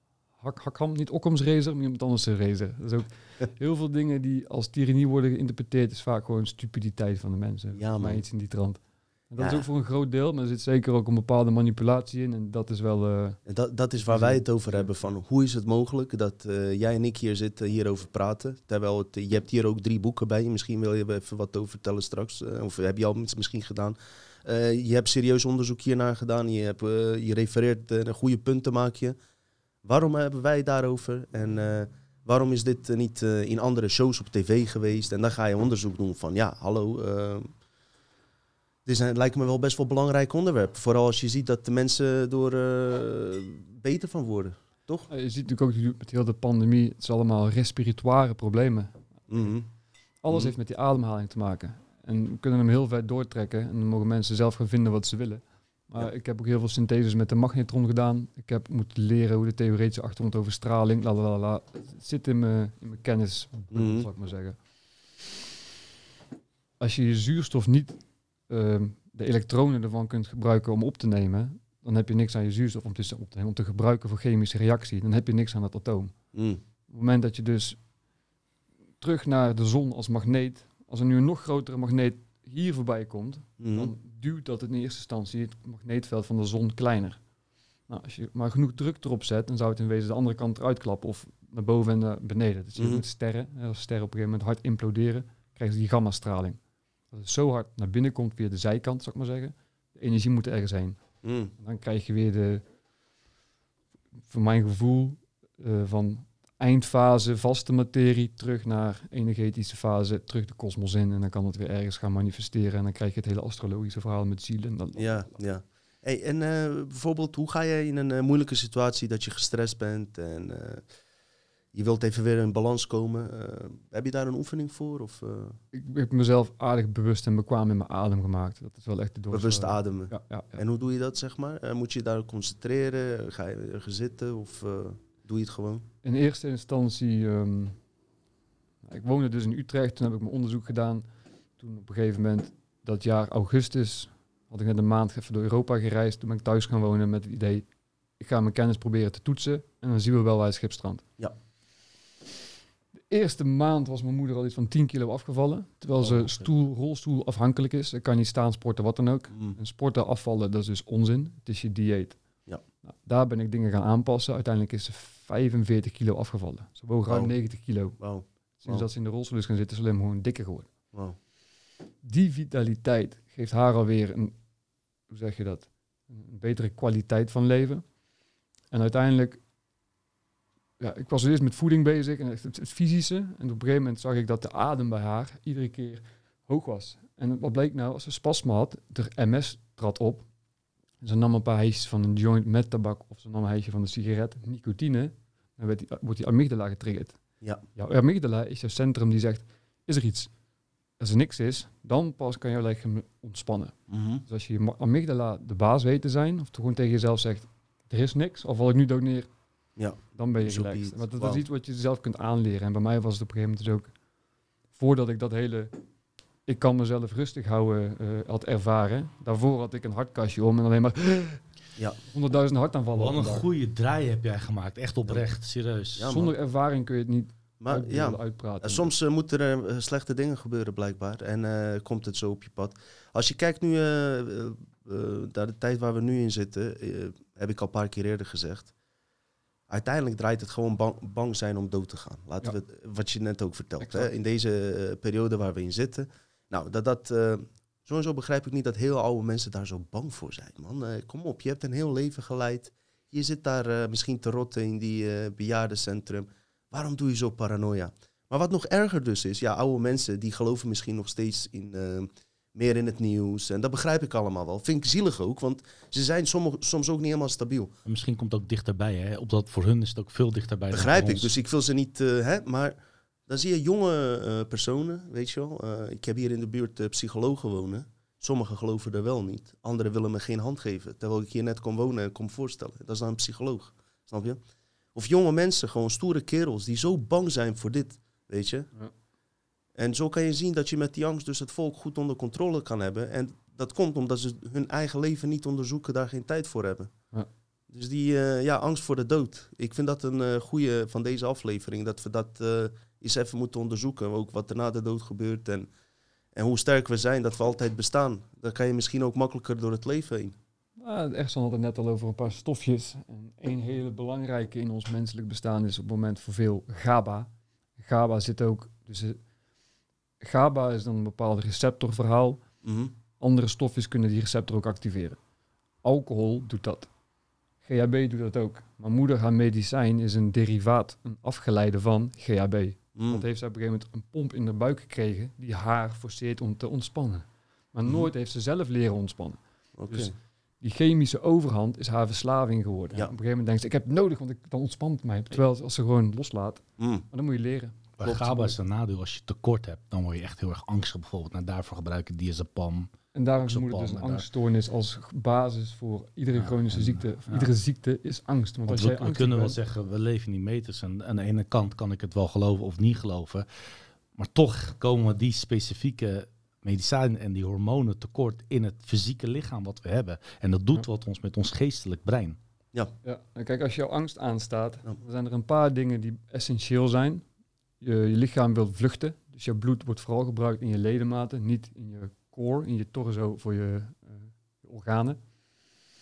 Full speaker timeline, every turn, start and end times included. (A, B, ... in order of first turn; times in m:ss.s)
0:00.4-0:13.4 A
0:07.8-0:08.2 B
0:09.4-0:09.6 B
0:13.5-0:29.2 B
0:14.0-0:14.9 A
0:29.8-0:37.5 B
0:38.9-0:45.1 B
0:45.1-0:48.9 A
0:49.3-0:49.7 B
0:50.2-1:04.6 A
0:50.3-0:50.6 B
1:03.7-1:04.1 B
1:06.8-1:16.1 A
1:16.3-1:16.6 B
1:16.9-1:17.8 A
1:19.0-1:27.2 A
1:23.6-1:23.9 B
1:27.9-1:36.6 A
1:32.8-1:33.0 B
1:37.1-1:41.0 A
1:41.2-1:41.5 B
1:41.6-1:42.6 A
1:44.3-1:55.4 A
1:55.0-2:00.8 B
2:01.7-2:05.6 B
2:05.7-2:10.6 A
2:09.3-2:15.8 B
2:16.0-2:17.8 A
2:18.8-2:21.0 A
2:21.6-2:27.7 A
2:28.2-2:31.0 A
2:33.1-2:42.2 A
2:36.0-2:36.5 B
2:39.3-2:39.6 B
2:42.9-2:48.0 A
2:47.1-2:47.3 B
2:48.0-2:48.9 B
2:48.6-2:50.7 A
2:52.0-2:54.4 A
2:55.1-2:57.8 A
2:58.7-2:59.4 A
3:00.8-3:10.3 A
3:11.0-3:17.2 A
3:17.8-3:20.3 A
3:21.0-3:29.3 A
3:23.9-3:24.2 B
3:29.8-3:31.4 B
3:30.2-3:33.9 A
3:34.7-3:35.7 A
3:36.5-3:41.4 A
3:42.1-3:43.5 A
3:43.0-3:46.1 C
3:46.0-3:46.3 B
3:46.1-3:48.9 A
3:47.6-3:58.7 B
3:59.7-4:27.7 B
4:03.8-4:04.1 A
4:27.8-4:31.3 C
4:30.7-4:32.8 B
4:33.3-4:44.4 B
4:45.0-4:48.7 B
4:49.8-4:56.9 B
4:57.7-5:05.7 B
5:06.4-5:10.4 B
5:10.8-5:19.2 A
5:20.2-5:22.4 A
5:22.6-5:22.9 B
5:23.2-5:25.2 A
5:25.8-5:26.9 A
5:27.6-5:48.6 A
5:33.0-5:33.2 B
5:39.8-5:40.1 B
5:46.8-5:47.0 B
5:48.0-5:52.9 C
5:53.1-5:59.6 A
5:53.4-5:54.2 C
5:56.3-5:57.5 C
5:58.7-6:03.5 C
6:04.2-6:12.4 C
6:13.0-6:17.2 A
6:17.8-6:25.2 A